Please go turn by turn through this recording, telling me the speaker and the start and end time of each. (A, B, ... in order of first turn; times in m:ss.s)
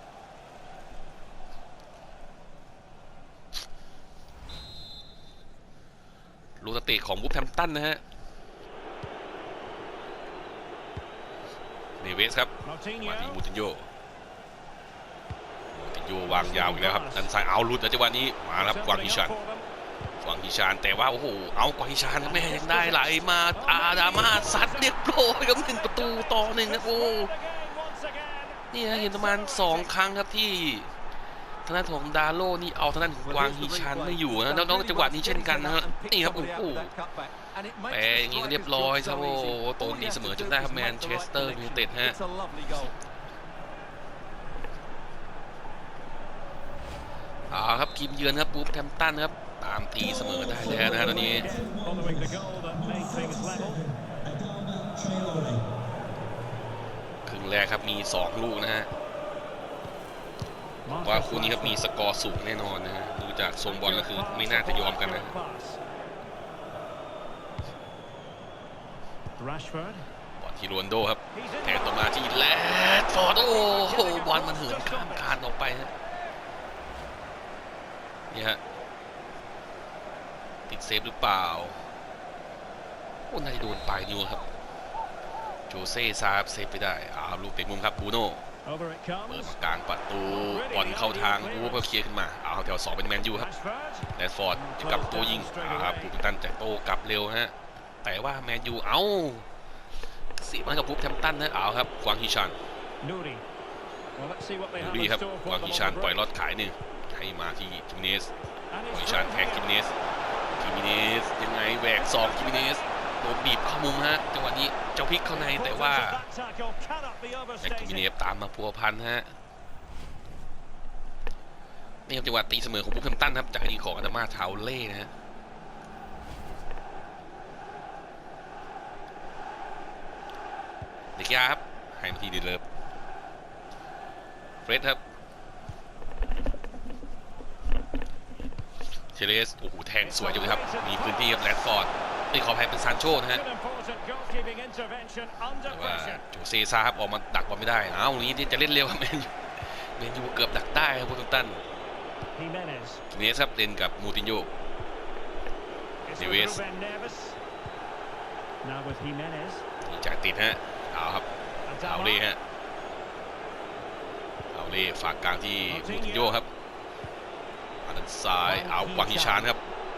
0:06.6-0:08.0 A
0:12.0-0:13.9 A
0:12.6-0:13.4 B
0:15.7-0:19.3 A
0:16.3-0:17.3 B
0:18.6-0:19.7 B
0:20.2-0:27.3 A
0:22.2-0:29.9 B
0:28.7-0:30.9 A
0:31.6-0:36.9 A
0:33.2-0:42.9 C
0:37.9-0:42.2 A
0:47.5-0:51.5 A
0:50.2-0:55.6 C
0:50.6-0:53.8 B
0:57.2-0:58.9 A
1:00.8-1:01.8 B
1:01.0-1:05.3 A
1:03.6-1:05.8 B
1:09.4-1:10.0 B
1:10.4-1:15.9 A
1:11.3-1:15.4 B
1:18.3-1:18.6 A
1:20.7-1:21.8 A
1:23.3-1:24.5 A
1:25.7-1:28.4 A
1:28.6-1:29.5 B
1:29.3-1:33.5 A
1:30.3-1:32.0 B
1:33.3-1:36.2 B
1:34.1-1:39.4 A
1:40.4-1:42.6 A
1:43.0-1:43.4 B
1:44.2-1:46.3 B
1:44.8-1:48.3 A
1:48.7-1:49.8 B
1:48.9-1:49.9 A
1:50.6-1:56.2 A
1:51.9-1:52.9 B
1:55.3-1:58.0 B
1:57.6-1:59.3 A
2:02.1-2:05.1 A
2:11.2-2:12.6 A
2:14.6-2:15.0 A
2:19.1-2:23.4 A
2:20.0-2:21.4 B
2:23.2-2:26.2 B
2:25.7-2:31.6 A
2:32.3-2:33.0 B
2:33.1-2:34.5 A
2:36.1-2:37.4 B
2:36.2-2:36.6 A
2:38.6-2:39.6 B
2:39.8-2:41.2 A
2:41.6-2:42.2 B
2:41.8-2:42.4 A
2:44.5-2:46.5 A
2:45.7-2:46.4 B
2:47.8-2:49.6 A
2:48.4-2:49.5 B